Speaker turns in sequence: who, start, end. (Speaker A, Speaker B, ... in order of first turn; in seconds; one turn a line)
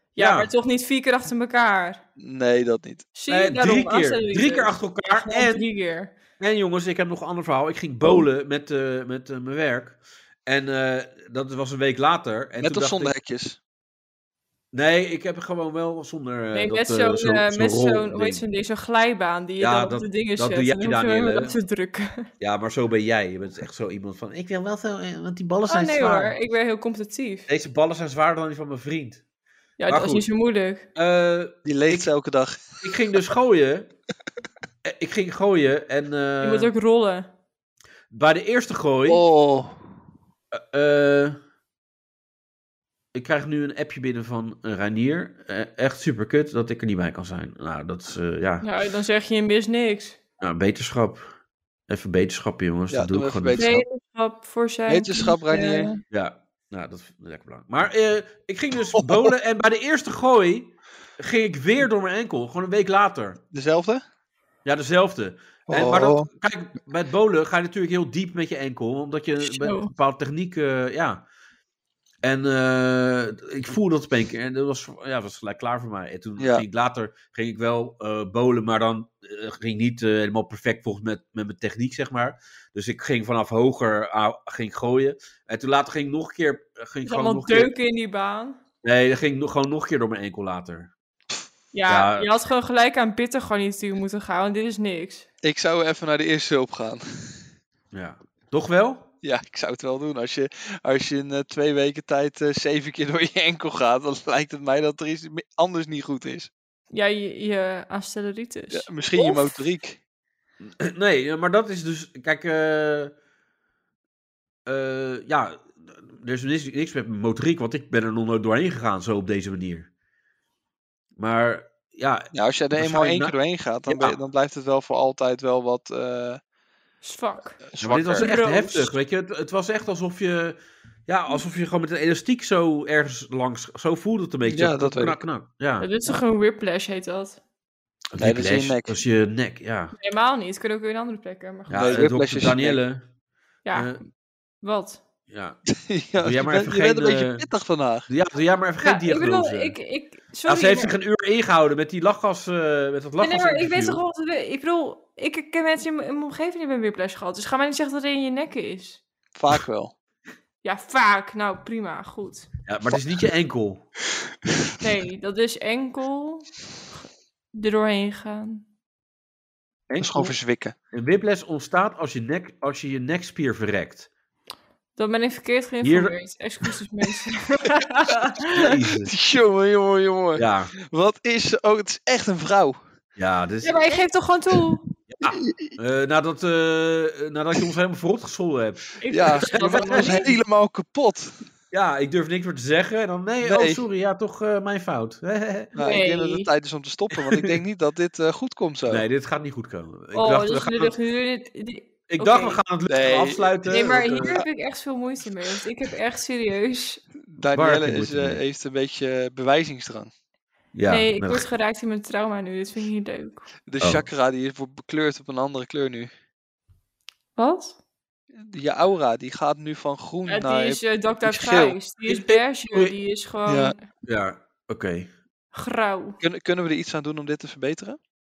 Speaker A: 0.1-2.0
Speaker B: 0.2-0.5
Speaker C: 2.2-3.0
Speaker A: 3.1-6.1
Speaker B: 3.3-5.6
Speaker B: 6.4-13.1
Speaker C: 12.6-13.6
Speaker B: 14.7-18.4
Speaker A: 16.5-22.3
Speaker B: 19.6-21.6
Speaker B: 22.4-26.3
Speaker A: 25.7-27.5
Speaker B: 27.5-29.2
Speaker A: 29.8-30.9
Speaker B: 29.9-30.3
Speaker B: 30.9-32.1
Speaker C: 31.6-32.8
Speaker B: 32.8-33.9
Speaker B: 34.8-36.7
Speaker A: 36.4-37.3
Speaker B: 38.1-39.2
Speaker C: 39.1-39.9
Speaker B: 40.5-41.4
Speaker B: 43.1-48.7
Speaker A: 48.6-50.2
Speaker B: 50.4-51.3
Speaker B: 51.9-53.8
Speaker C: 52.9-53.8
Speaker A: 53.5-56.0
Speaker C: 54.9-55.9
Speaker B: 56.1-63.4
Speaker C: 58.8-59.3
Speaker C: 63.5-64.0
Speaker B: 64.6-71.2
Speaker C: 65.7-66.3
Speaker A: 69.4-69.9
Speaker B: 72.2-87.7
Speaker C: 76.4-76.6
Speaker A: 87.0-88.6
Speaker B: 88.8-90.9
Speaker A: 91.7-95.3
Speaker B: 91.9-92.3
Speaker C: 95.4-97.4
Speaker B: 97.9-99.1
Speaker C: 99.2-106.5
Speaker A: 106.9-109.6
Speaker C: 108.7-110.0
Speaker B: 110.6-113.1
Speaker B: 114.7-119.9
Speaker B: 121.2-124.2
Speaker C: 122.3-126.4
Speaker A: 127.0-127.7
Speaker C: 127.7-128.3
Speaker B: 127.8-135.9
Speaker A: 128.2-128.9
Speaker C: 134.5-135.2
Speaker A: 135.8-137.4
Speaker B: 138.1-139.9
Speaker C: 138.2-139.0
Speaker A: 139.9-141.8
Speaker B: 141.7-143.0
Speaker C: 141.7-142.8
Speaker A: 143.6-144.0
Speaker B: 143.7-144.0
Speaker A: 144.6-145.0
Speaker B: 145.3-145.6
Speaker C: 145.8-148.1
Speaker B: 146.2-147.4
Speaker B: 148.1-149.7
Speaker A: 148.8-150.9
Speaker B: 150.4-154.0
Speaker A: 153.2-159.0
Speaker C: 159.3-159.9
Speaker A: 160.6-162.5
Speaker B: 162.7-163.9
Speaker A: 164.8-166.5
Speaker A: 167.5-168.6
Speaker B: 169.9-170.3
Speaker C: 170.0-170.7
Speaker B: 170.9-174.1
Speaker A: 175.0-178.7
Speaker B: 175.8-176.2
Speaker B: 178.5-179.1
Speaker C: 179.0-182.8
Speaker B: 180.4-180.7
Speaker B: 183.2-183.7
Speaker A: 183.6-184.8
Speaker B: 185.1-190.3
Speaker C: 185.4-185.7
Speaker A: 189.0-190.4
Speaker C: 189.1-191.3
Speaker B: 191.7-195.9
Speaker C: 193.4-193.8
Speaker C: 195.7-199.0
Speaker A: 195.8-196.5
Speaker B: 197.2-197.4
Speaker B: 198.9-200.9
Speaker A: 200.1-202.6
Speaker B: 202.1-204.4
Speaker C: 202.9-203.6
Speaker A: 203.7-207.0
Speaker C: 207.2-210.1
Speaker B: 207.5-208.4
Speaker B: 210.7-211.4
Speaker A: 210.9-213.5
Speaker C: 213.7-216.1
Speaker B: 213.8-214.0
Speaker A: 217.4-217.8
Speaker C: 218.3-221.8
Speaker A: 220.3-223.8
Speaker B: 222.1-222.4
Speaker C: 223.5-223.7
Speaker B: 224.1-225.1
Speaker A: 225.5-226.2
Speaker C: 226.2-228.0